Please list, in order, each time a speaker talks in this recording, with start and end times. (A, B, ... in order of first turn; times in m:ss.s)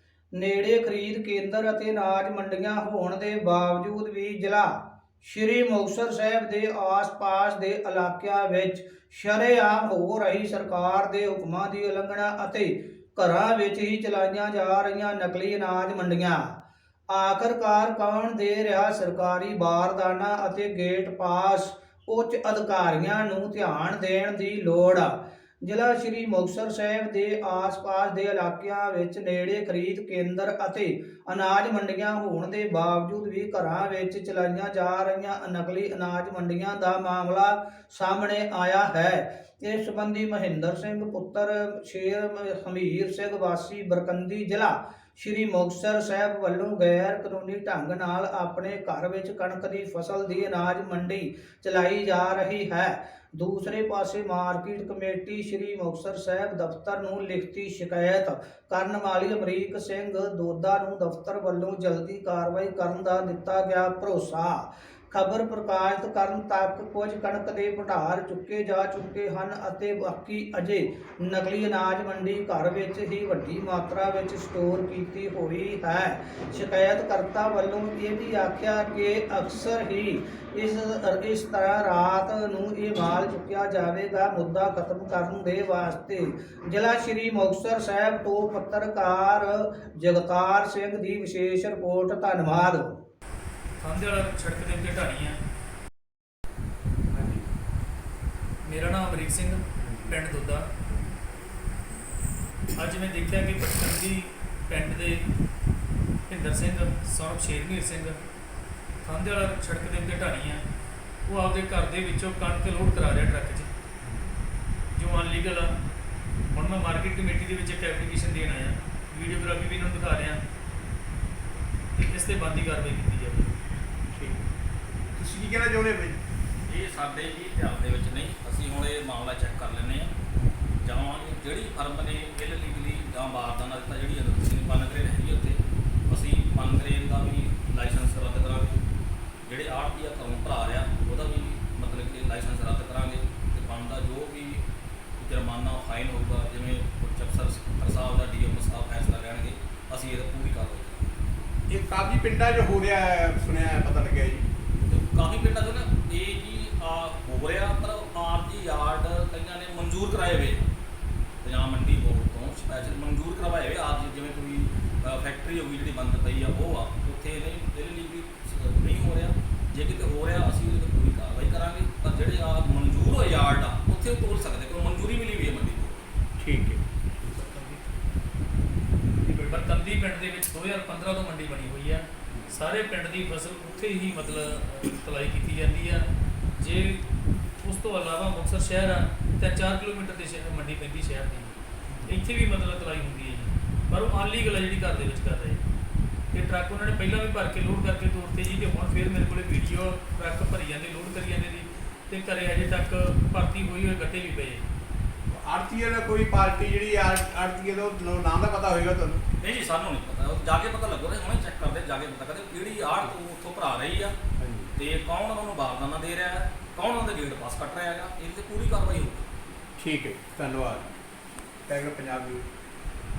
0:00.3-0:16.4 A
0:17.1-1:32.9 A
1:33.8-1:35.4 B
1:37.1-1:37.4 C
1:38.6-1:40.6 B
1:39.8-1:40.1 C
1:42.7-1:45.2 B
1:46.3-1:48.2 B
1:49.0-1:50.6 B
1:51.2-1:53.7 B
1:54.0-1:54.3 C
1:54.9-1:55.7 B
1:56.5-2:00.4 B
2:01.9-2:03.5 B
2:04.1-2:04.4 C
2:05.1-2:06.2 C
2:06.7-2:10.1 D
2:10.8-2:18.8 D
2:19.5-2:24.6 D
2:25.2-2:31.1 D
2:31.7-2:34.5 C
2:34.9-2:40.7 D
2:41.4-2:56.1 D
2:56.4-2:56.8 C
2:57.3-2:57.8 B
2:59.2-3:06.1 B
3:06.6-3:07.0 B
3:07.6-3:15.6 B
3:16.3-3:24.6 B
3:25.3-3:29.2 C
3:29.4-3:34.2 D
3:34.4-3:34.7 C
3:34.8-3:39.3 D
3:39.8-3:40.9 C
3:41.7-3:42.4 C